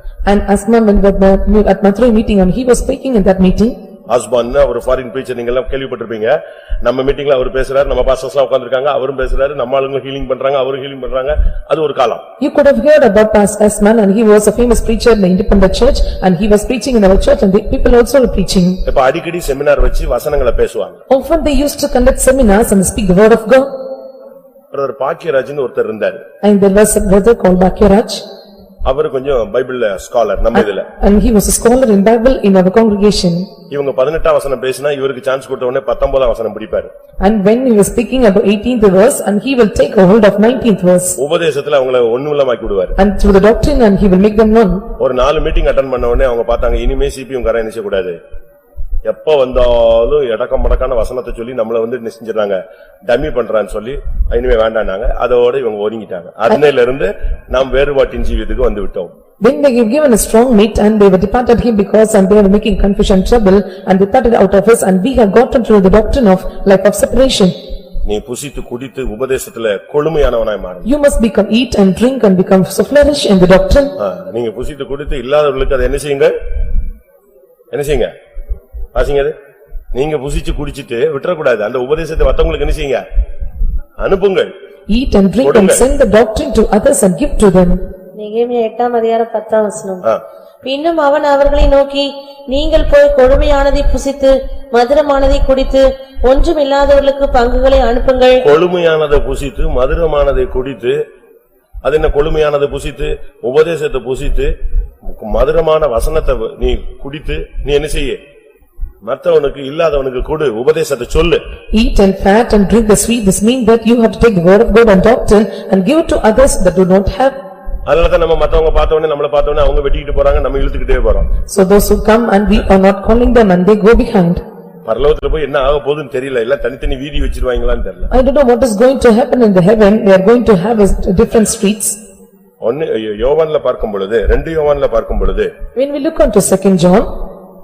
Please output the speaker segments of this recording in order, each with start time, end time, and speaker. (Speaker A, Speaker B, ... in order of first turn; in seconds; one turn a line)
Speaker A: 0.3-3.8
Speaker B: 4.1-12.2
Speaker A: 12.4-18.8
Speaker B: 18.9-21.0
Speaker A: 21.1-23.7
Speaker B: 24.7-26.2
Speaker A: 26.4-28.2
Speaker B: 28.9-30.9
Speaker A: 30.6-33.5
Speaker B: 33.7-36.9
Speaker A: 37.2-41.2
Speaker B: 41.2-43.0
Speaker A: 43.0-44.9
Speaker B: 45.0-48.2
Speaker B: 49.1-59.1
Speaker A: 59.4-67.5
Speaker B: 68.0-70.9
Speaker A: 70.8-74.0
Speaker B: 74.0-76.3
Speaker B: 77.7-78.1
Speaker B: 79.0-79.3
Speaker B: 79.9-83.0
Speaker B: 84.0-84.5
Speaker A: 84.9-87.8
Speaker B: 85.4-85.8
Speaker C: 88.2-90.0
Speaker C: 90.6-98.4
Speaker B: 98.4-101.0
Speaker B: 101.8-104.5
Speaker B: 105.0-108.2
Speaker B: 109.0-111.4
Speaker A: 111.7-117.4
Speaker B: 117.9-121.3
Speaker A: 121.5-124.4
Speaker B: 124.8-128.1
Speaker A: 128.1-132.0
Speaker B: 132.6-135.5
Speaker A: 135.8-137.1